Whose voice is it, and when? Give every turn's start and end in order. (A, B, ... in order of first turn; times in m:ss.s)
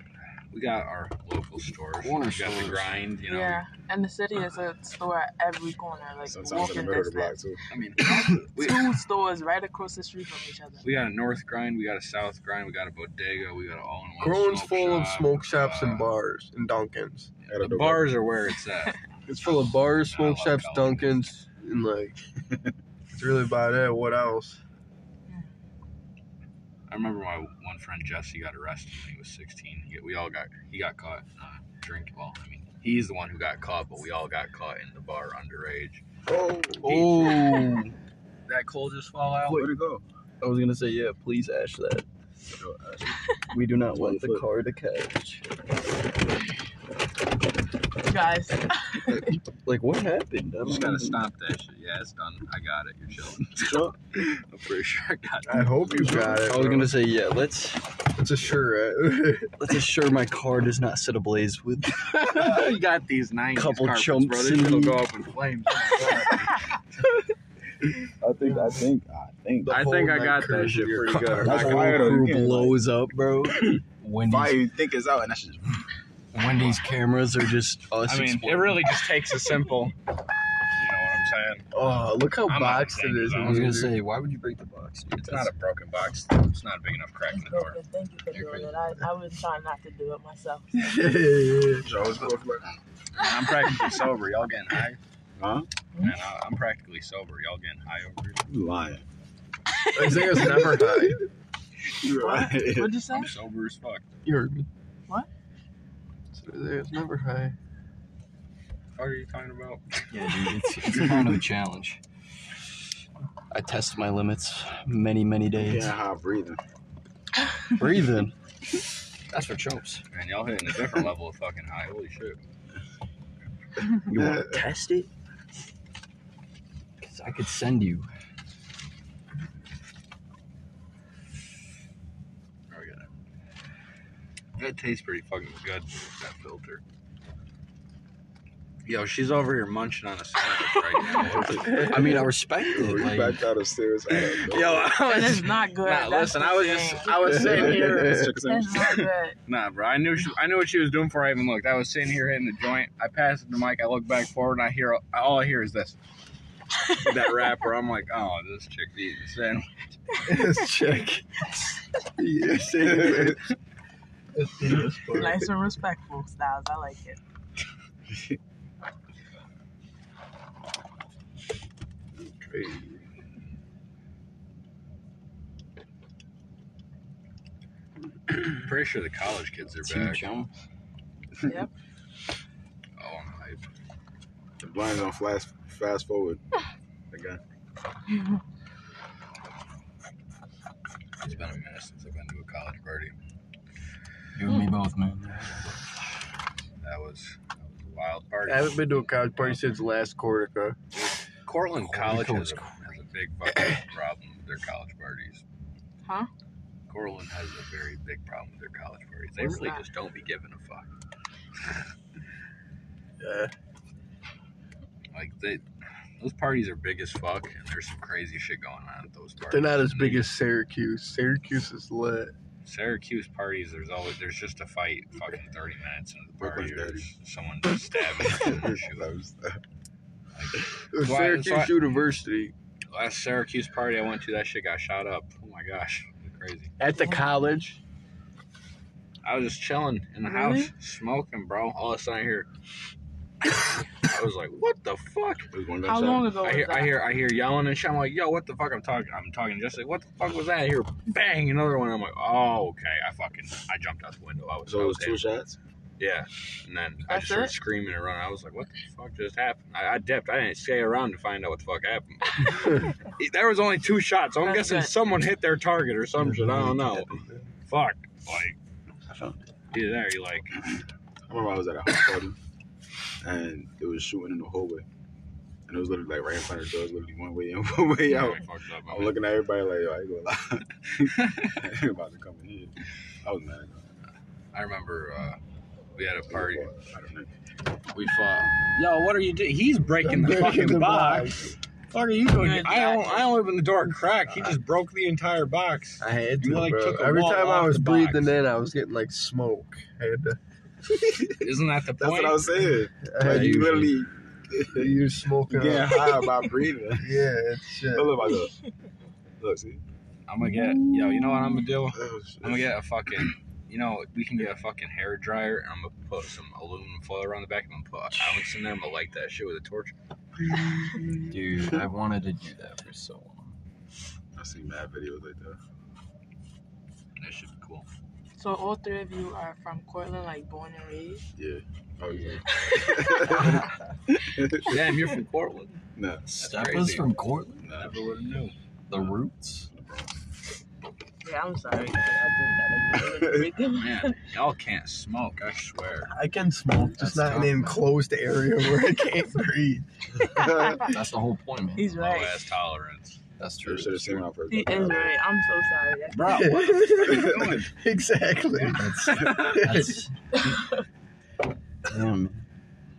0:00.5-0:03.6 A
0:02.0-0:02.9 B
0:03.3-0:07.4 C
0:06.2-0:07.6 D
0:07.7-0:08.9 A
0:08.0-0:10.8 C
0:10.8-0:16.1 A
0:14.2-0:17.3 E
0:17.4-0:21.2 A
0:17.5-0:18.2 D
0:19.3-0:22.2 E
0:22.4-0:22.7 D
0:23.1-0:24.6 E
0:26.9-0:36.0 A
0:36.2-0:37.1 D
0:36.8-0:37.9 B
0:36.8-0:37.8 A
0:38.5-0:39.7 A
0:39.4-0:40.0 D
0:40.4-0:42.1 B
0:42.5-0:43.2 D
0:43.5-0:45.6 B
0:43.9-0:44.4 D
0:48.0-0:49.4 C
0:49.5-0:51.2 B
0:50.6-0:56.1 A
0:53.5-0:53.9 D
0:55.5-0:56.9 E
0:56.0-0:57.9 B
0:58.1-0:59.5 E
0:59.6-1:02.6 B
1:02.1-1:06.6 A
1:03.5-1:05.1 B
1:06.0-1:06.4 D
1:08.2-1:10.0 D
1:09.6-1:11.8 E
1:09.7-1:12.2 A
1:11.2-1:14.6 B
1:11.4-1:12.8 D
1:13.6-1:15.8 D
1:16.3-1:18.9 B
1:18.0-1:19.9 A
1:20.8-1:21.7 A
1:21.7-1:23.9 E
1:22.4-1:23.8 A
1:23.4-1:25.5 B
1:25.1-1:27.8 A
1:27.3-1:30.7 C
1:28.4-1:28.6 B
1:30.7-1:32.0 E
1:31.8-1:32.6 D
1:33.1-1:35.0 A
1:35.4-1:35.7 D
1:36.0-1:38.5 A
1:38.5-1:39.1 D
1:39.8-1:40.6 C
1:39.9-1:41.3 E
1:41.9-1:43.0 D
1:42.0-1:43.3 C
1:43.1-1:44.0 A
1:44.2-1:44.7 E
1:46.3-1:47.5 E
1:49.0-1:50.1 A
1:50.1-1:52.0 B
1:53.5-1:55.9 B
1:55.6-1:56.6 D
1:57.7-2:00.0 B
2:00.1-2:02.4 A
2:03.9-2:04.6 D
2:04.0-2:05.1 B
2:07.0-2:08.1 B
2:12.7-2:13.1 A
2:14.6-2:16.8 A
2:18.8-2:21.9 A
2:20.9-2:21.2 C
2:21.1-2:25.0 D
2:21.6-2:22.2 E
2:21.8-2:23.4 B
2:24.1-2:28.3 A
2:25.0-2:29.4 C
2:27.2-2:28.3 E
2:27.3-2:29.1 D
2:29.5-2:36.0 A
2:36.9-2:39.7 A
2:40.2-2:41.5 E
2:42.2-2:43.5 E
2:42.8-2:43.4 D
2:44.3-2:45.5 E
2:45.1-2:47.2 C
2:48.1-2:48.4 D
2:52.4-2:53.0 E
2:58.4-3:00.3 A
2:59.8-3:00.5 B
3:01.4-3:01.7 C
3:03.0-3:03.6 A
3:04.6-3:06.4 D
3:07.1-3:07.4 D
3:11.2-3:13.1 A
3:14.3-3:15.8 B
3:16.8-3:19.6 A
3:18.4-3:20.8 E
3:20.9-3:25.4 A
3:21.8-3:22.7 B
3:26.0-3:26.3 C
3:26.9-3:30.9 A
3:29.4-3:29.8 C
3:33.2-3:33.5 E
3:35.1-3:35.6 A
3:36.2-3:40.3 A
3:39.5-3:42.3 E
3:42.6-3:49.1 A
3:46.4-3:47.1 D
3:48.2-3:49.6 D
3:50.3-3:51.8 A
3:50.9-3:52.5 E
3:52.9-3:56.7 A
3:56.8-3:57.8 E
3:57.0-3:57.3 C
3:59.2-4:02.5 A
4:00.2-4:00.7 C
4:03.5-4:05.5 A
4:05.5-4:06.4 D
4:05.8-4:07.0 C
4:06.4-4:15.2 A
4:14.6-4:15.6 D
4:16.0-4:28.6 A
4:17.1-4:17.5 C
4:24.4-4:24.9 C
4:26.2-4:27.0 B
4:29.1-4:29.5 B
4:29.7-4:30.5 A
4:30.7-4:32.4 D
4:33.2-4:34.8 D
4:35.7-4:43.9 D
4:38.1-4:39.2 A
4:41.0-4:41.6 A
4:44.5-4:45.4 A
4:46.0-4:46.7 A
4:46.3-4:47.3 D
4:47.9-4:51.3 A
4:50.0-4:51.5 E
4:51.9-4:58.4 A
4:52.4-4:53.3 C
4:56.0-5:00.4 E
5:00.9-5:01.5 D
5:01.4-5:02.5 A
5:02.0-5:07.3 D
5:03.0-5:03.6 E
5:03.2-5:03.9 B
5:04.7-5:06.2 E
5:07.0-5:08.3 E
5:07.9-5:08.5 D
5:09.4-5:09.8 D
5:10.3-5:19.9 A
5:11.9-5:12.7 D
5:18.1-5:18.4 B
5:20.4-5:21.8 D
5:21.3-5:23.6 B
5:24.4-5:25.6 D
5:27.2-5:27.9 A
5:28.4-5:31.2 C
5:31.4-5:33.7 D
5:32.0-5:32.4 A
5:32.6-5:33.5 C
5:34.2-5:34.8 D
5:34.6-5:35.8 A
5:36.0-5:36.3 D
5:36.3-5:37.6 B
5:36.4-5:37.1 A
5:37.6-5:38.1 D
5:37.7-5:38.5 A
5:38.9-5:39.7 B
5:39.7-5:40.2 D
5:41.2-5:44.2 C
5:42.9-5:43.5 D
5:43.7-5:46.1 A
5:46.1-5:49.8 E
5:47.0-5:47.9 B
5:50.2-5:51.0 C
5:50.3-5:50.8 D
5:50.7-5:51.9 B
5:51.8-5:52.4 C
5:51.9-5:53.2 A
5:53.4-5:54.2 B
5:53.6-5:55.2 D
5:54.5-5:56.6 C
5:56.1-5:57.3 A
5:56.2-6:00.0 E
5:57.0-5:57.7 D
5:58.7-6:00.6 B
5:59.1-5:59.5 D
5:59.1-5:59.7 A
6:00.3-6:00.8 C
6:01.8-6:02.4 B